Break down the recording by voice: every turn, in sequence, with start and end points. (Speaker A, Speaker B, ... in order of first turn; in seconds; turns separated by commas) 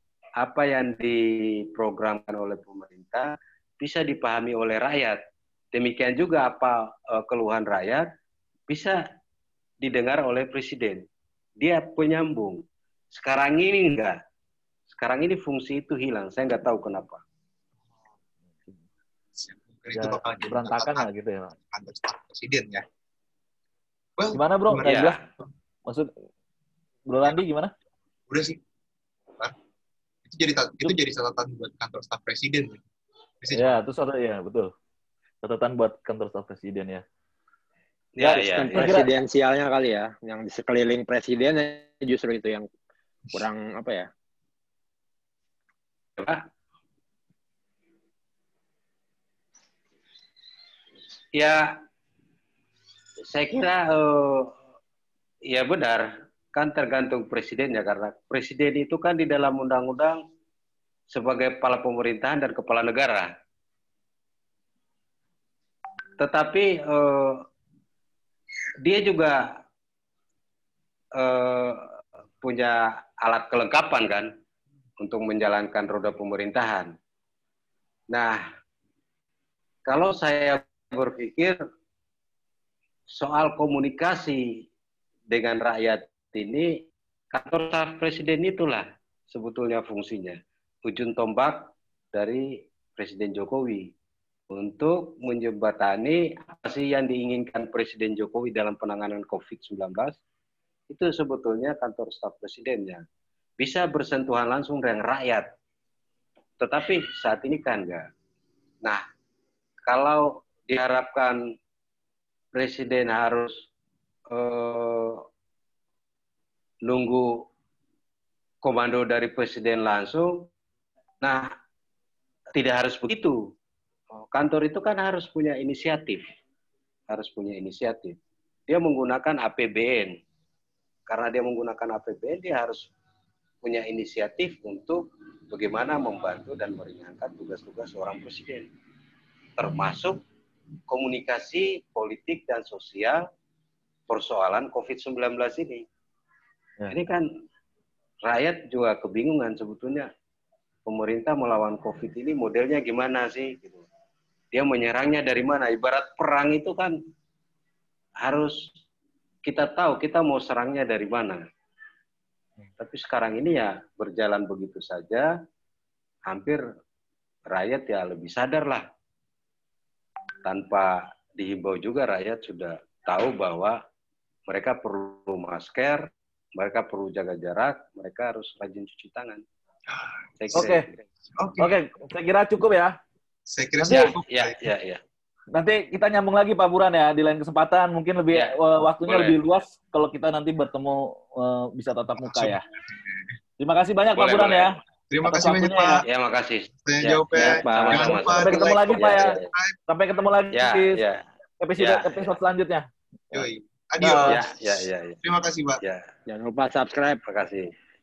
Speaker A: 0.4-5.2, Speaker A: 5.7-8.1, Speaker A: 8.7-9.0, Speaker A: 9.8-11.0, Speaker A: 11.6-14.2, Speaker A: 14.9-17.2, Speaker B: 19.4-21.1, Speaker C: 19.9-21.5, Speaker B: 21.7-22.8, Speaker B: 24.2-25.0, Speaker C: 24.3-25.2, Speaker A: 24.8-25.2, Speaker C: 25.8-26.1, Speaker C: 27.1-27.7, Speaker B: 28.3-28.6, Speaker B: 30.3-32.8, Speaker B: 33.4-33.8, Speaker C: 33.5-34.7, Speaker C: 35.4-37.0, Speaker A: 38.1-38.9, Speaker C: 38.2-39.1, Speaker D: 38.7-42.7, Speaker D: 43.3-44.1, Speaker A: 51.3-51.8, Speaker A: 53.2-54.5, Speaker A: 55.5-60.2, Speaker A: 61.1-63.3, Speaker A: 66.2-67.4, Speaker A: 68.8-69.5, Speaker A: 71.2-71.9, Speaker A: 72.4-74.3, Speaker A: 75.0-76.9, Speaker A: 78.1-78.4, Speaker A: 79.8-81.6, Speaker A: 83.1-84.5, Speaker A: 85.3-93.9, Speaker A: 94.5-100.2, Speaker A: 100.9-103.0, Speaker A: 103.6-105.5, Speaker A: 106.6-108.1, Speaker A: 109.8-111.4, Speaker A: 112.5-113.7, Speaker A: 114.3-115.2, Speaker A: 116.8-117.4, Speaker A: 118.6-120.5, Speaker A: 121.2-121.5, Speaker A: 122.5-123.4, Speaker A: 124.2-126.2, Speaker A: 127.1-128.2, Speaker A: 128.7-130.2, Speaker A: 131.1-132.9, Speaker A: 133.6-138.7, Speaker A: 139.6-140.2, Speaker A: 140.9-143.2, Speaker A: 144.1-145.8, Speaker A: 146.9-147.2, Speaker A: 148.2-150.1, Speaker A: 150.8-153.8, Speaker A: 154.5-156.9, Speaker A: 158.2-158.7, Speaker A: 159.4-161.4, Speaker A: 162.8-165.3, Speaker A: 166.3-166.6, Speaker A: 167.5-168.8, Speaker A: 170.4-173.8, Speaker A: 174.5-179.4, Speaker B: 180.0-180.7, Speaker A: 180.4-180.8, Speaker C: 180.5-180.9, Speaker B: 181.3-181.7, Speaker C: 181.6-182.9, Speaker B: 183.5-184.7, Speaker C: 183.8-184.1, Speaker A: 183.9-185.0, Speaker C: 185.5-192.6, Speaker A: 188.3-189.4, Speaker B: 192.2-192.6, Speaker C: 193.6-196.0, Speaker A: 194.1-194.7, Speaker B: 195.1-196.0, Speaker A: 196.1-199.5, Speaker B: 196.8-199.8, Speaker D: 197.4-198.2, Speaker C: 197.4-199.4, Speaker C: 199.9-201.0, Speaker A: 200.5-201.2, Speaker C: 201.6-203.5, Speaker A: 201.8-202.3, Speaker B: 203.3-205.8, Speaker C: 204.0-204.4, Speaker A: 204.0-205.2, Speaker A: 205.8-206.1, Speaker D: 206.3-207.2, Speaker A: 207.2-207.7